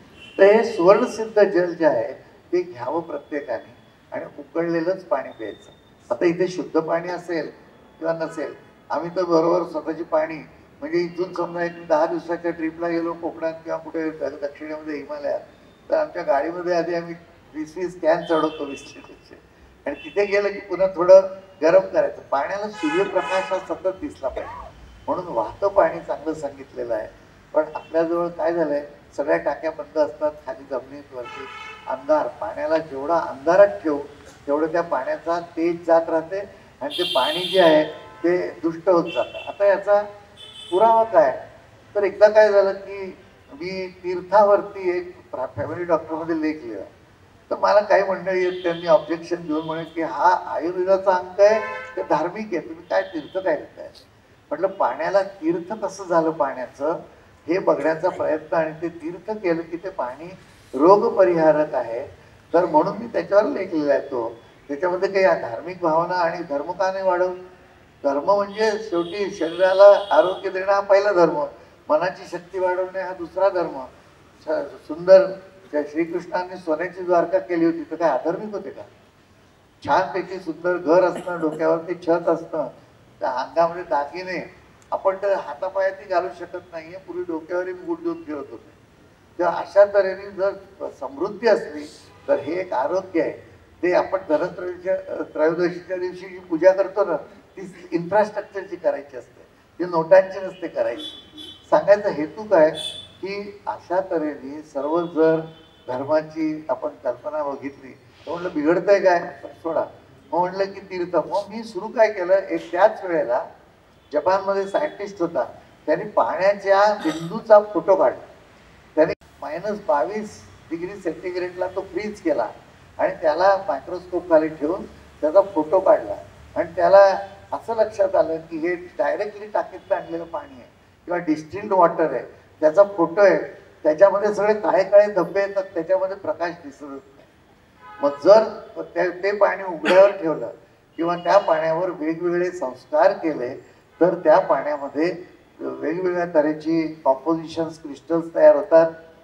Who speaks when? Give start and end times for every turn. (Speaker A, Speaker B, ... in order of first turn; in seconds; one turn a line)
Speaker A: 0.4-40.0
Speaker A: 40.7-41.4
Speaker A: 41.9-46.9
Speaker A: 47.5-67.3
Speaker A: 68.0-73.9
Speaker A: 74.4-78.9
Speaker A: 79.8-82.7
Speaker A: 83.2-88.8
Speaker A: 89.4-101.1
Speaker A: 101.7-113.4
Speaker A: 114.1-118.2
Speaker A: 119.0-137.2
Speaker A: 138.0-148.9